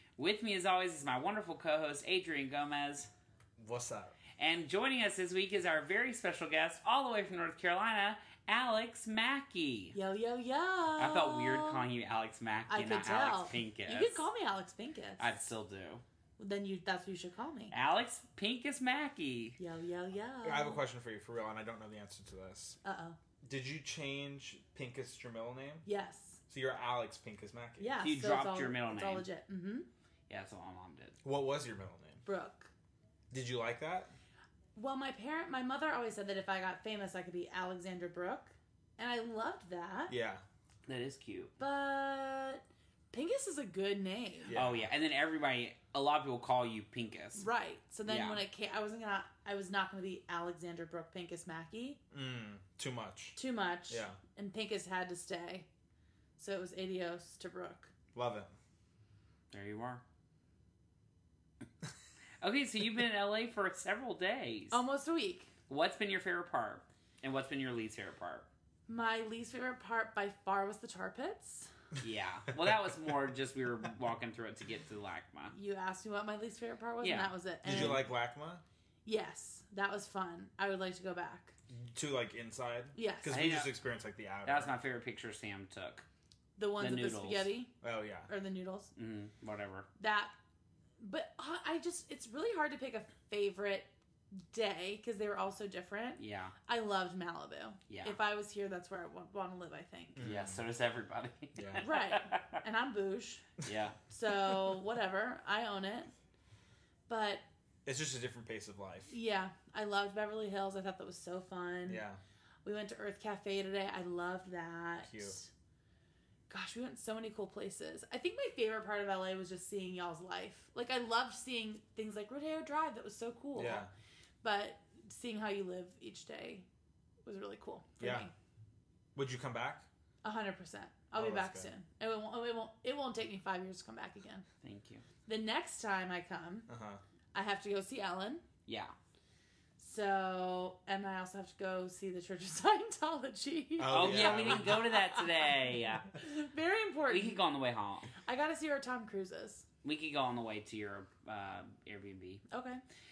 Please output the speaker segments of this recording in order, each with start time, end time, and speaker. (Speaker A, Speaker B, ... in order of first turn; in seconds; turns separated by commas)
Speaker A: 0.2-3.1, Speaker B: 3.6-4.2, Speaker A: 4.4-9.9, Speaker C: 9.9-11.9, Speaker A: 11.0-14.2, Speaker C: 12.7-15.3, Speaker A: 15.2-16.0, Speaker C: 16.4-17.7, Speaker A: 17.7-19.6, Speaker C: 19.6-20.8, Speaker B: 20.4-22.8, Speaker C: 22.8-23.2, Speaker B: 23.4-25.8, Speaker C: 25.8-26.4, Speaker B: 26.5-28.0, Speaker C: 27.8-29.9, Speaker A: 28.0-29.2, Speaker A: 30.3-31.2, Speaker B: 31.2-32.2, Speaker C: 32.2-32.7, Speaker B: 33.3-34.1, Speaker C: 34.7-40.2, Speaker B: 40.1-40.4, Speaker A: 40.9-41.5, Speaker C: 41.6-44.5, Speaker B: 44.5-44.9, Speaker A: 44.5-47.4, Speaker C: 47.4-52.0, Speaker A: 48.0-48.4, Speaker B: 52.1-53.4, Speaker C: 53.3-55.7, Speaker B: 53.9-54.2, Speaker C: 56.4-57.9, Speaker B: 58.1-58.5, Speaker A: 59.5-60.0, Speaker A: 62.4-64.8, Speaker C: 64.7-65.5, Speaker A: 65.7-68.5, Speaker C: 68.9-71.7, Speaker A: 72.0-75.5, Speaker C: 75.5-78.1, Speaker A: 77.0-78.0, Speaker B: 77.6-78.6, Speaker C: 79.0-81.5, Speaker B: 81.7-84.7, Speaker C: 82.9-83.4, Speaker A: 83.3-83.7, Speaker A: 84.4-86.1, Speaker C: 86.6-87.8, Speaker A: 86.8-87.5, Speaker B: 87.8-88.3, Speaker C: 88.3-88.9, Speaker A: 89.0-89.9, Speaker C: 90.0-90.3, Speaker C: 91.0-100.2, Speaker A: 96.2-96.5, Speaker A: 97.9-98.2, Speaker B: 100.2-100.6, Speaker A: 100.2-102.6, Speaker B: 101.5-101.9, Speaker C: 101.8-103.5, Speaker A: 103.6-104.0, Speaker C: 104.1-106.1, Speaker C: 107.1-107.4, Speaker B: 107.8-109.1, Speaker C: 109.1-112.0, Speaker B: 111.9-112.2, Speaker C: 112.6-115.5, Speaker B: 115.0-115.4, Speaker C: 116.5-123.9, Speaker B: 123.5-123.9, Speaker C: 124.4-126.7, Speaker C: 127.2-128.3, Speaker B: 128.0-128.3, Speaker B: 129.1-129.9, Speaker C: 130.2-134.4, Speaker B: 131.1-131.7, Speaker A: 134.6-135.0, Speaker C: 135.2-136.7, Speaker B: 136.7-137.0, Speaker C: 137.3-138.4, Speaker A: 138.7-138.9, Speaker C: 139.8-145.4, Speaker B: 143.8-144.8, Speaker A: 143.9-146.1, Speaker C: 146.1-147.4, Speaker A: 147.1-148.1, Speaker C: 148.2-149.7, Speaker A: 149.8-152.4, Speaker C: 152.5-152.8